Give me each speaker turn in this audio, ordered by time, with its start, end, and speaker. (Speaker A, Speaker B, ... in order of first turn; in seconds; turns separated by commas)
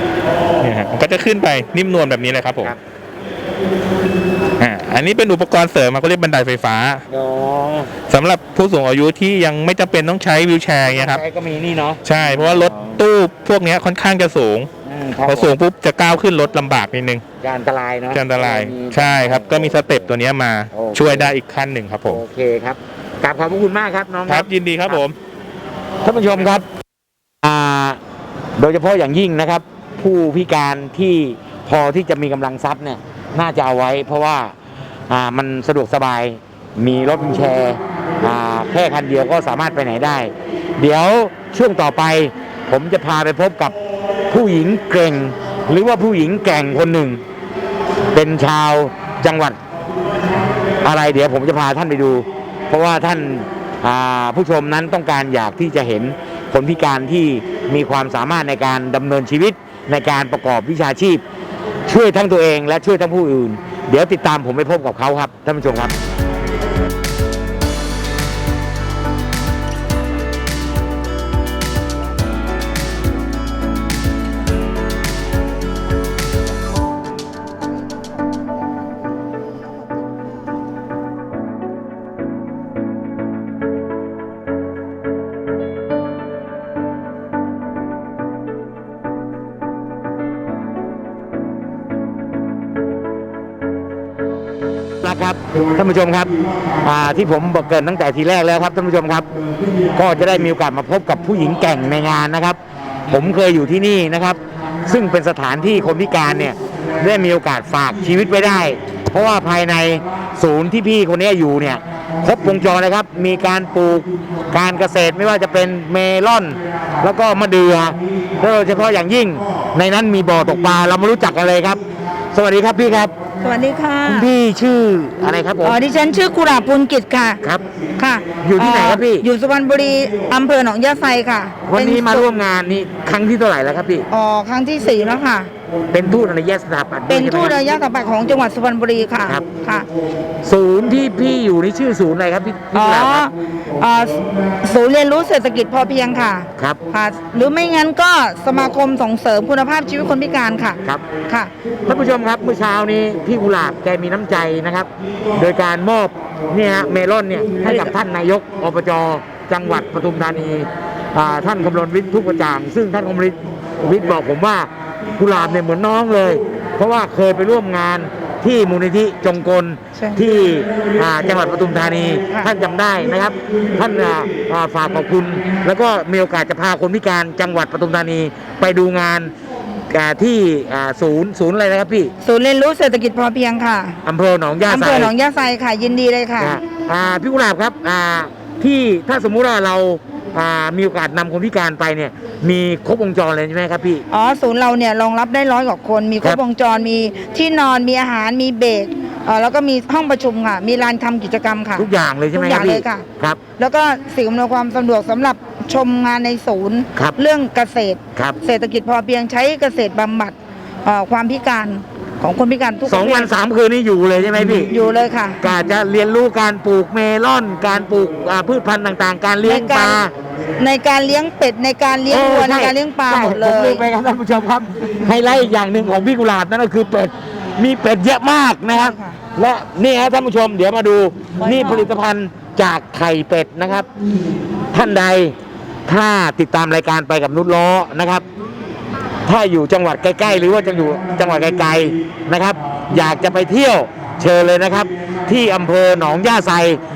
Speaker A: 0.6-2.7, Speaker A: 4.6-7.0, Speaker B: 7.1-7.9, Speaker A: 8.1-11.2, Speaker B: 10.8-13.0, Speaker A: 12.1-14.7, Speaker B: 14.8-15.5, Speaker A: 15.2-17.2, Speaker B: 17.4-20.1, Speaker A: 18.1-22.2, Speaker B: 20.7-21.4, Speaker B: 22.0-25.0, Speaker A: 24.3-25.2, Speaker B: 26.0-26.6, Speaker B: 27.4-28.0, Speaker B: 28.6-34.5, Speaker B: 35.1-43.8, Speaker B: 44.3-47.2, Speaker B: 48.1-49.6, Speaker B: 50.8-61.2, Speaker B: 61.9-66.0, Speaker B: 95.0-99.3, Speaker B: 99.8-121.8, Speaker B: 122.3-123.1, Speaker C: 123.4-124.3, Speaker B: 124.0-125.8, Speaker C: 125.6-127.4, Speaker C: 128.0-132.3, Speaker B: 128.4-129.3, Speaker B: 131.7-134.1, Speaker C: 134.1-135.5, Speaker B: 135.9-137.6, Speaker C: 137.1-139.9, Speaker B: 140.4-143.3, Speaker C: 142.7-151.5, Speaker B: 151.8-179.3, Speaker C: 157.6-157.9, Speaker C: 169.9-170.2, Speaker B: 179.9-182.1, Speaker C: 182.2-184.0, Speaker B: 184.1-185.1, Speaker C: 184.7-186.6, Speaker B: 186.4-194.1, Speaker C: 194.1-203.1, Speaker B: 201.8-203.4, Speaker C: 203.6-213.3, Speaker B: 212.8-214.7, Speaker C: 214.7-215.4, Speaker B: 215.4-220.1, Speaker C: 219.4-220.0, Speaker C: 220.6-223.8, Speaker B: 222.1-233.9, Speaker C: 228.7-229.2, Speaker C: 231.4-231.9, Speaker B: 234.7-235.4, Speaker B: 235.9-238.2, Speaker B: 239.2-246.8